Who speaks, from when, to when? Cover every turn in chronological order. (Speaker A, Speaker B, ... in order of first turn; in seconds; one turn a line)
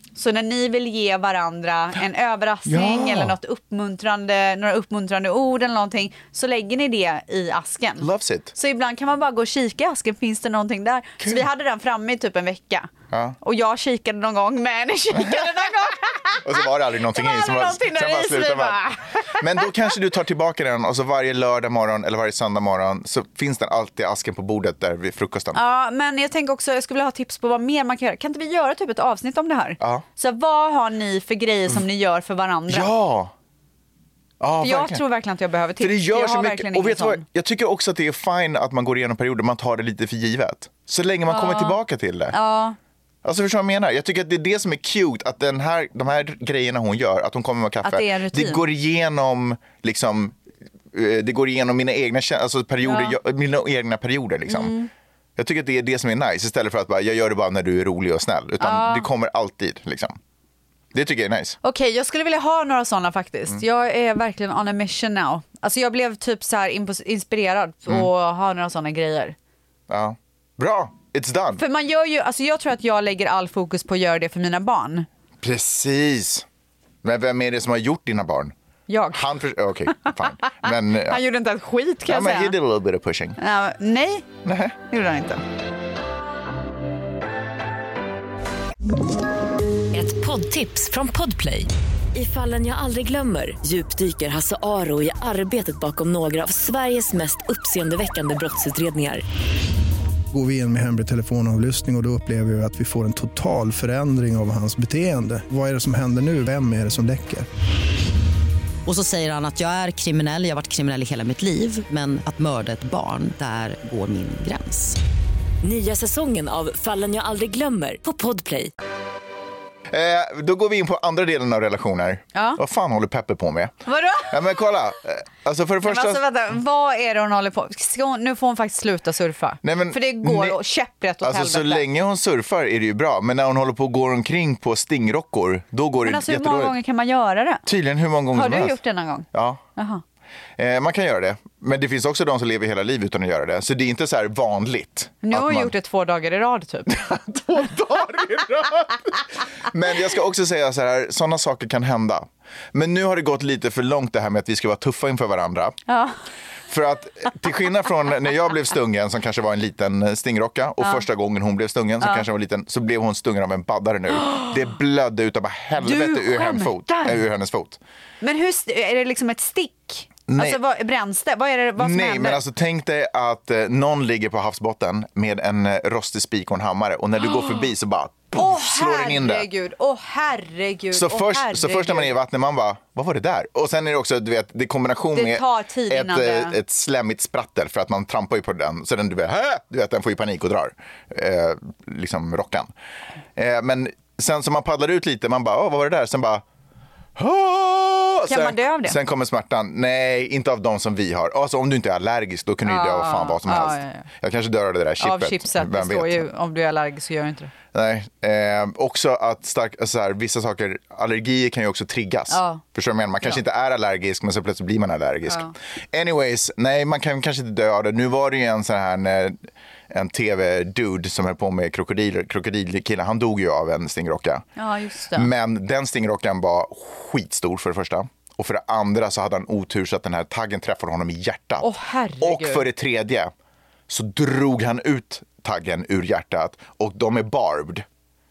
Speaker A: 0.1-12.9
Speaker B: 2.6-3.3
Speaker B: 8.0-8.5
Speaker B: 13.1-13.4
Speaker A: 13.4-19.6
Speaker B: 15.2-15.4
Speaker B: 16.4-25.6
Speaker A: 25.5-32.9
Speaker B: 32.7-33.3
Speaker B: 34.4-35.0
Speaker A: 34.6-37.2
Speaker B: 35.8-42.4
Speaker A: 41.3-41.8
Speaker A: 42.3-42.8
Speaker B: 43.2-50.4
Speaker A: 47.8-48.6
Speaker B: 50.9-54.7
Speaker A: 52.8-53.2
Speaker A: 54.4-54.9
Speaker B: 55.4-60.1
Speaker A: 58.6-59.1
Speaker B: 60.9-61.6
Speaker A: 61.6-69.3
Speaker B: 69.9-71.6
Speaker A: 71.6-75.1
Speaker B: 75.4-76.4
Speaker B: 77.0-78.5
Speaker A: 78.9-79.3
Speaker B: 79.1-81.2
Speaker A: 80.0-82.5
Speaker B: 82.1-83.4
Speaker A: 83.4-84.2
Speaker B: 84.4-84.8
Speaker A: 84.9-85.4
Speaker C: 89.9-99.2
Speaker D: 100.3-107.5
Speaker E: 108.8-115.0
Speaker C: 115.6-118.7
Speaker B: 119.9-126.2
Speaker A: 122.3-122.6
Speaker A: 123.8-124.6
Speaker A: 125.8-131.8
Speaker B: 129.6-130.6
Speaker B: 131.2-136.8
Speaker A: 136.0-137.7
Speaker B: 137.7-138.8
Speaker A: 138.3-140.0
Speaker B: 139.3-139.6
Speaker B: 140.6-145.7
Speaker A: 145.2-147.0
Speaker B: 146.9-155.8
Speaker A: 155.9-156.2
Speaker B: 156.7-167.8
Speaker A: 160.8-161.0
Speaker A: 165.8-167.2
Speaker A: 168.2-172.4
Speaker B: 170.3-170.6
Speaker B: 171.8-179.5
Speaker A: 178.3-182.1
Speaker B: 180.9-192.7
Speaker A: 185.1-186.6
Speaker B: 193.3-196.4
Speaker B: 197.2-206.2
Speaker A: 198.2-199.0
Speaker A: 202.6-204.1
Speaker A: 205.0-207.5
Speaker B: 207.7-224.4
Speaker A: 212.3-212.6
Speaker A: 215.3-215.5
Speaker A: 224.6-225.3
Speaker B: 225.1-233.3
Speaker A: 231.6-232.7
Speaker B: 233.9-237.8